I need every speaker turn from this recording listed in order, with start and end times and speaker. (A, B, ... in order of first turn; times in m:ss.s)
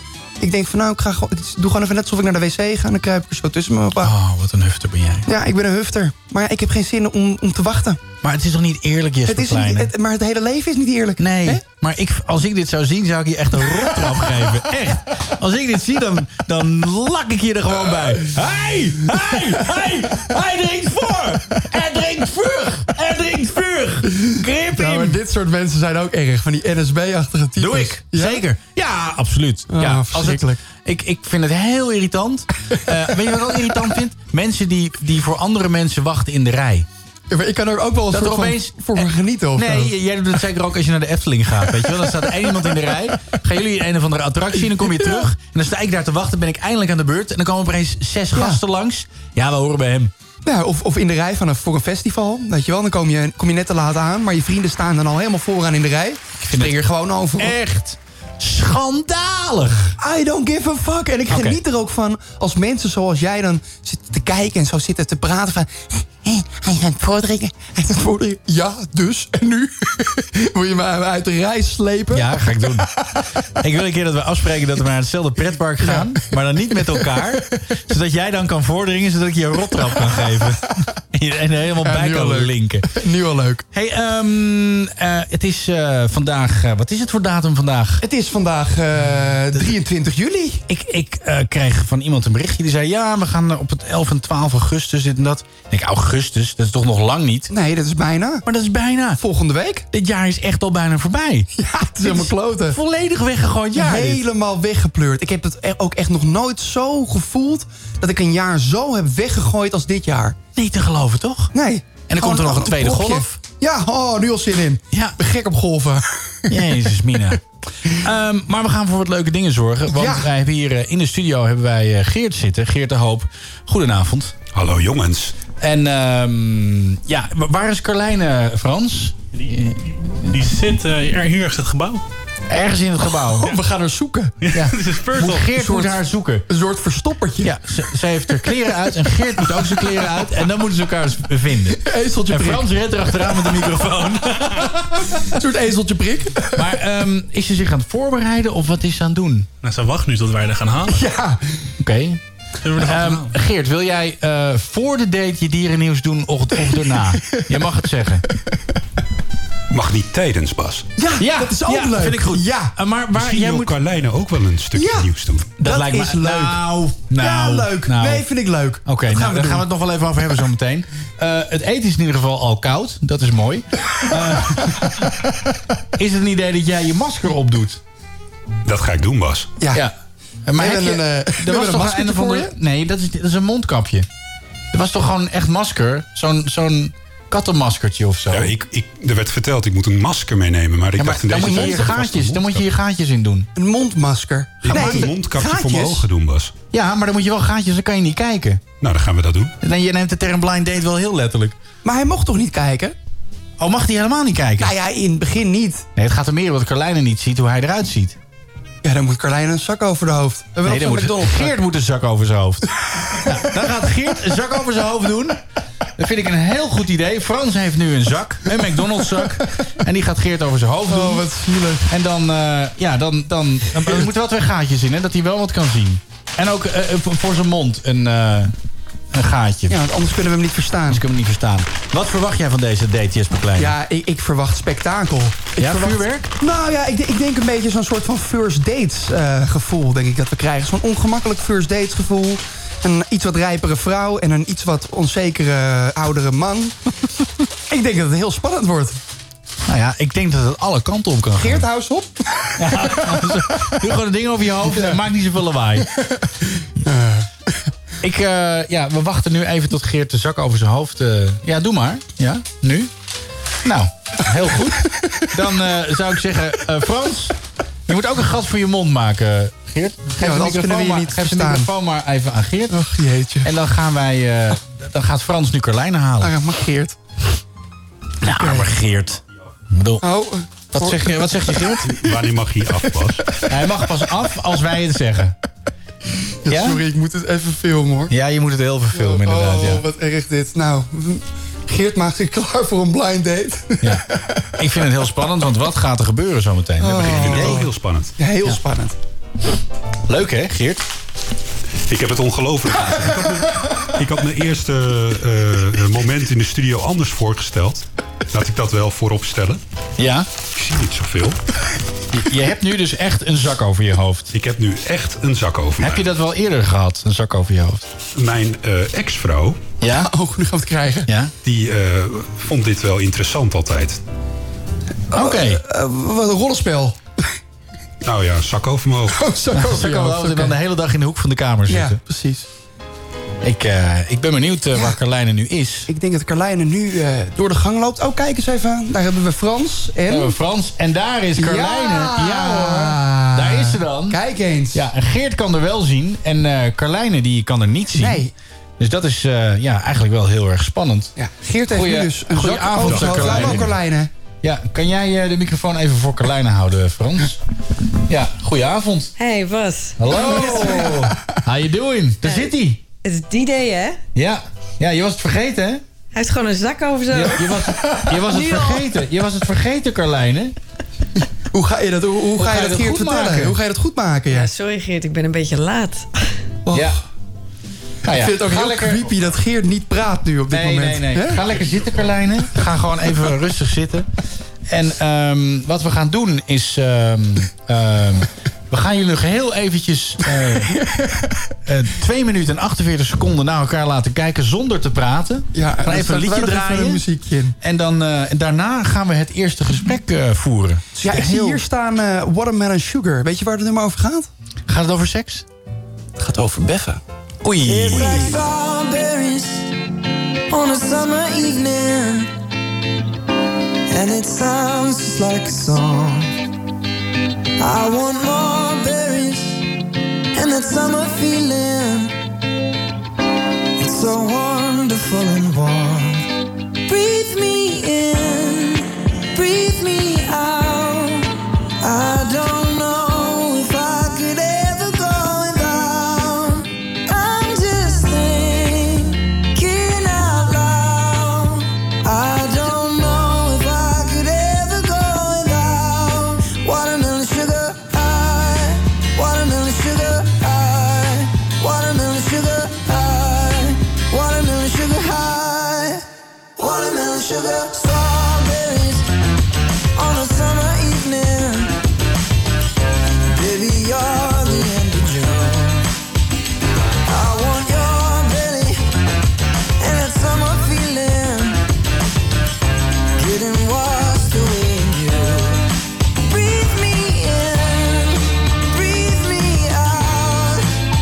0:00.4-0:04.1 A
0:04.0-0:05.3 B
0:05.3-0:08.0 A
0:08.2-0:09.9 B
0:09.2-0:11.6 A
0:11.2-0:25.2 B
0:24.3-0:28.4 A
0:27.6-0:36.8 B
0:29.7-0:30.6 A
0:37.3-0:39.9 A
0:38.1-0:50.1 B
0:44.8-0:45.2 A
0:48.3-0:48.6 A
0:50.4-0:57.6 A
0:56.4-0:56.7 B
0:57.4-1:00.0 B
1:00.0-1:12.8 A
1:01.3-1:01.6 B
1:12.1-1:12.9 B
1:13.6-1:22.9 B
1:15.8-1:17.3 A
1:21.8-1:23.6 A
1:23.7-1:28.0 B
1:28.0-1:30.6 A
1:30.7-1:37.5 B
1:37.5-1:38.4 A
1:38.4-1:39.2 B
1:39.2-1:39.8 A
1:39.9-1:41.5 B
1:41.6-1:42.8 A
1:42.0-1:44.2 B
1:43.7-1:50.4 A
1:50.5-1:51.5 B
1:51.5-1:56.6 A
1:52.1-1:53.4 B
1:54.9-1:55.2 B
1:56.5-2:04.3 B
1:59.9-2:00.3 A
2:04.5-2:05.3 C
2:05.6-2:10.3 B
2:10.3-2:12.0 D
2:12.5-2:13.6 B
2:13.3-2:14.4 A
2:14.4-2:15.5 D
2:14.5-2:16.4 B
2:15.6-2:17.5 A
2:17.4-2:25.2 B
2:21.8-2:22.7 A
2:25.1-2:26.7 A
2:26.5-2:29.5 B
2:29.6-2:31.0 D
2:30.9-2:31.4 A
2:31.8-2:32.2 B
2:32.6-2:33.3 D
2:32.8-2:38.3 B
2:37.0-2:37.4 A
2:39.7-2:40.9 C
2:41.0-2:42.7 A
2:41.2-2:43.8 B
2:43.1-2:45.5 C
2:44.7-2:49.6 A
2:45.6-2:48.3 B
2:48.8-2:55.1 B
2:56.0-2:57.8 B
2:58.6-2:59.5 C
3:00.4-3:04.1 B
3:00.6-3:02.5 A
3:04.7-3:08.5 B
3:08.3-3:12.6 C
3:11.0-3:13.5 B
3:11.4-3:11.9 A
3:13.5-3:16.1 A
3:14.6-3:16.5 C
3:14.6-3:15.1 B
3:16.7-3:18.6 B
3:18.8-3:19.5 C
3:19.6-3:21.6 B
3:21.8-3:23.0 A
3:23.6-3:24.7 B
3:24.6-3:25.8 A
3:26.0-3:28.2 B
3:28.8-3:31.6 A
3:30.6-3:35.4 B
3:36.0-3:41.2 B
3:40.9-3:41.9 A
3:41.9-3:48.5 B
3:49.1-3:49.8 B
3:49.7-3:51.0 A
3:50.9-3:53.7 B
3:53.6-4:06.7 A
3:55.6-3:56.3 B
4:07.7-4:09.0 A
4:09.7-4:11.6 B
4:11.4-4:13.6 A
4:12.6-4:15.9 B
4:16.8-4:17.3 A
4:18.0-4:22.9 B
4:23.6-4:27.4 B
4:24.9-4:25.2 A
4:27.9-4:32.8 B
4:30.2-4:31.7 A
4:32.7-4:33.5 A
4:33.4-4:36.3 B
4:36.2-4:37.0 A
4:38.2-4:40.0 B
4:38.4-4:38.7 A
4:40.0-4:41.1 A
4:40.7-4:42.0 B
4:41.9-4:43.4 C
4:43.4-4:45.4 B
4:46.4-4:48.1 A
4:46.5-4:46.8 B
4:48.1-4:49.8 B
4:48.9-4:54.4 A
4:54.6-4:57.6 B
4:56.8-4:59.0 A
4:57.0-4:58.1 C
5:00.1-5:00.8 B
5:01.8-5:09.6 C
5:10.0-5:10.3 B
5:10.5-5:11.4 C
5:12.1-5:14.3 B
5:14.3-5:16.1 C
5:15.8-5:17.9 B
5:18.2-5:19.6 C
5:19.8-5:20.1 B
5:19.9-5:21.1 A
5:21.1-5:21.3 B
5:21.4-5:24.0 C
5:25.1-5:27.0 A
5:25.1-5:25.6 B
5:28.0-5:29.2 C
5:29.1-5:30.6 A
5:29.5-5:32.0 B
5:31.7-5:32.5 A
5:33.4-5:35.9 B
5:35.9-5:40.4 A
5:40.1-5:44.2 B
5:41.4-5:44.8 A
5:44.7-5:48.2 B
5:47.9-5:48.3 A
5:48.8-5:51.1 B
5:51.2-5:54.1 A
5:51.7-5:53.7 B
5:54.4-5:57.4 B
5:58.1-5:59.1 B
5:59.2-6:00.6 E
6:00.0-6:02.8 B
6:00.0-6:01.2 A
6:02.2-6:02.5 E
6:03.0-6:04.0 E
6:04.1-6:05.8 B
6:06.1-6:07.5 E
6:07.1-6:10.5 B
6:07.8-6:08.1 A
6:08.2-6:08.8 E
6:11.5-6:14.5 A
6:12.4-6:13.6 B
6:14.3-6:16.1 E
6:16.6-6:17.0 A
6:16.7-6:17.0 B
6:18.0-6:19.1 B
6:18.1-6:21.4 A
6:20.5-6:24.0 B
6:24.7-6:30.8 B
6:30.3-6:31.4 A
6:31.6-6:37.0 B
6:35.5-6:37.6 A
6:37.6-6:41.6 B
6:40.9-6:44.3 A
6:44.7-6:45.4 B
6:46.2-6:47.0 A
6:47.4-6:48.4 B
6:47.6-6:49.6 F
6:48.0-6:48.4 A
6:50.5-6:52.3 F
6:53.9-6:56.3 F
6:57.6-6:59.6 F
7:00.3-7:02.1 F
7:03.8-7:06.3 F
7:06.9-7:11.3 F
7:11.8-7:36.0 F
7:36.6-7:39.1 F
7:39.9-7:41.7 F
7:43.3-7:45.9 F
7:47.1-7:48.8 F
7:49.8-7:51.6 F
7:53.2-7:55.6 F
7:56.2-8:00.6 F